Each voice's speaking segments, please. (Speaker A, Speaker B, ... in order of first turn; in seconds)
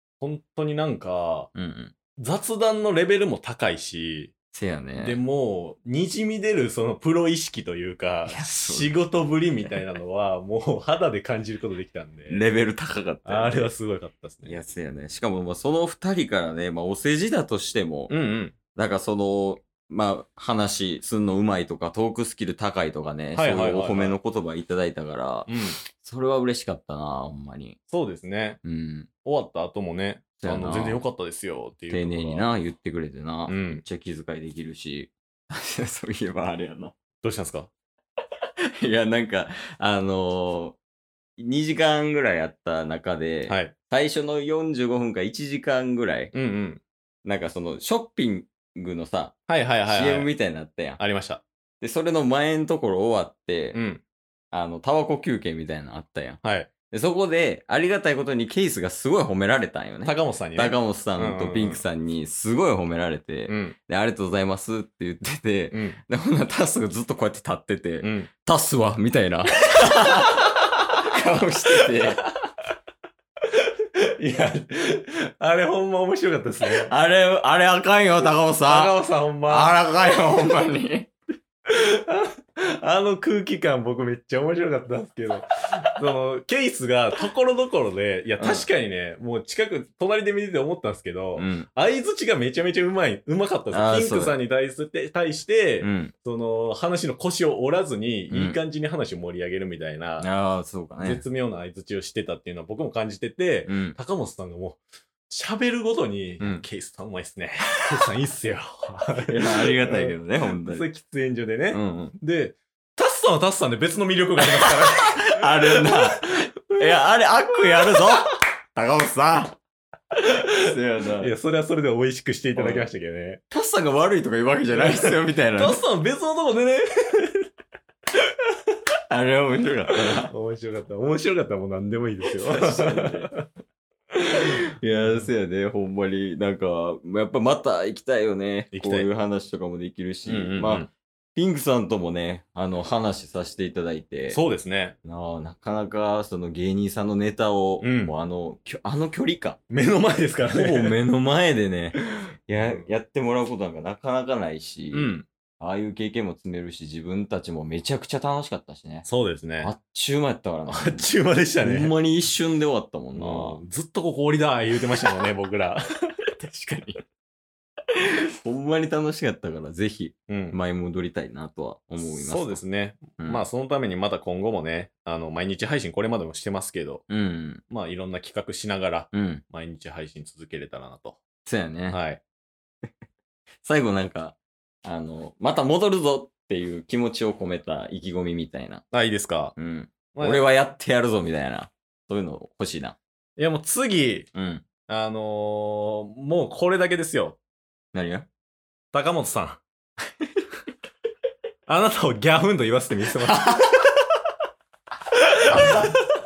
Speaker A: 0.2-1.5, 2.2-4.3, 5.0-12.4, 13.2-14.6, 18.1-18.6, 23.3-24.2, 25.5-25.8, 27.9-28.6, 29.2-32.5, 33.5-33.8, 37.2-37.7, 43.5-43.7, 46.3-46.8, 49.5-50.3, 51.0-51.4, 53.7-54.0, 56.4-56.7, 60.0-61.8, 63.5-63.8, 65.7-66.0, 68.0-68.3, 69.8-70.4, 71.8-72.3, 73.6-76.9, 78.7-79.8, 81.7-100.3, 101.0-117.0, 117.7-118.3, 120.2-120.5, 121.2-123.4, 124.7-127.5, 129.9-133.5, 134.9-135.3, 138.7-139.1, 140.2-140.9, 144.3-145.0, 147.8-148.1, 149.7-151.0, 152.6-152.9, 154.9-155.3, 159.1-159.7, 160.7-161.9, 163.1-165.8, 170.3-170.6, 172.0-177.0, 177.7-181.2, 181.9-182.2, 188.9-189.6, 190.2-190.4, 193.4-194.3, 194.9-197.4, 198.9-199.6, 201.7-203.8, 205.5-206.0
Speaker B: 1.6-1.9, 4.5-5.2, 8.3-8.9, 9.6-9.8, 12.3-13.7, 14.4-18.1, 18.8-27.8, 28.6-29.1, 30.4-31.0, 31.9-36.9, 38.8-40.8, 41.4-46.3, 47.2-51.0, 51.8-53.8, 54.5-72.2, 76.8-79.0, 79.5-81.1, 88.4-88.7, 91.4-91.7, 93.7-94.4, 95.8-96.1, 98.3-98.6, 100.2-101.2, 103.7-104.0, 106.4-106.7, 109.3-110.9, 111.7-112.2, 114.4-119.6, 120.5-121.3, 122.5-122.9, 123.5-125.8, 129.1-130.3, 132.4-133.3, 134.3-144.4, 145.0-149.6, 150.5-159.1, 159.6-161.1, 161.6-163.6, 166.4-167.0, 168.0-172.6, 173.2-173.5, 177.1-177.6, 179.1-179.4, 181.4-182.0, 183.6-188.8, 189.6-193.0, 194.3-194.6, 197.9-198.3, 203.3-203.6, 205.5-205.9